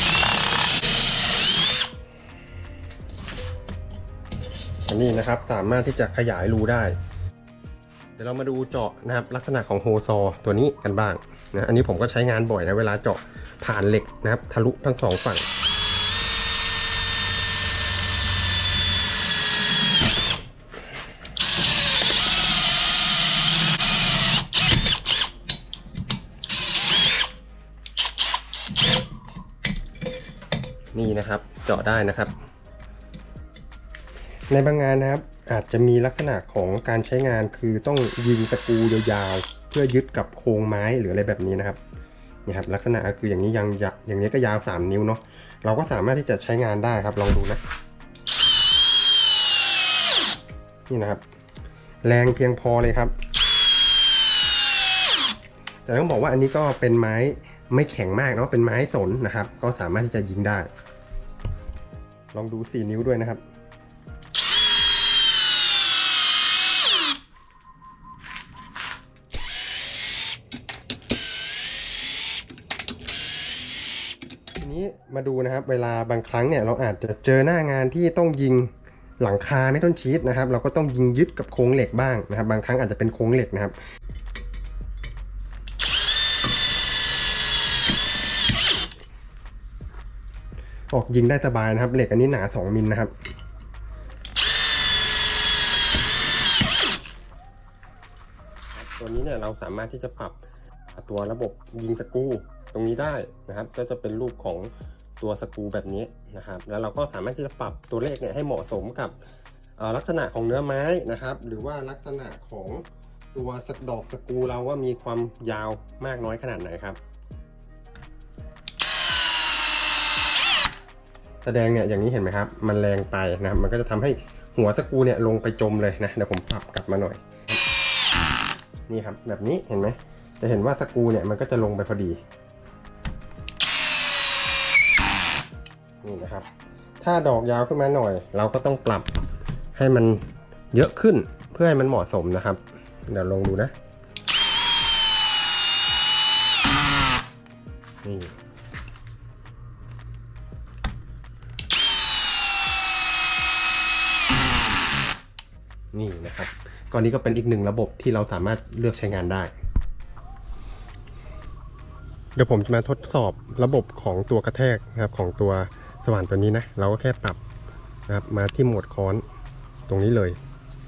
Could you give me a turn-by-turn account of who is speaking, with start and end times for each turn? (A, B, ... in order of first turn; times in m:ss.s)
0:04.9-0:07.0 A
0:08.2-0:15.5 A
0:30.9-0:32.3 A
0:34.5-0:41.8 A
0:42.4-0:47.6 A
0:50.9-0:51.2 A
0:52.0-0:53.1 A
0:55.8-1:00.7 A
1:02.3-1:03.4 A
1:14.6-1:23.8 A
1:30.9-1:33.1 A
1:38.7-1:40.4 A
1:40.9-1:49.2 A
1:49.8-1:57.0 A
2:01.4-2:07.6 A
2:08.9-2:12.2 A
2:16.0-2:16.5 A
2:17.0-2:19.1 A
2:19.7-2:23.7 A
2:28.0-2:28.3 A
2:35.9-2:39.5 A
2:42.3-2:47.4 A
2:48.1-2:49.2 A
2:49.9-2:50.4 A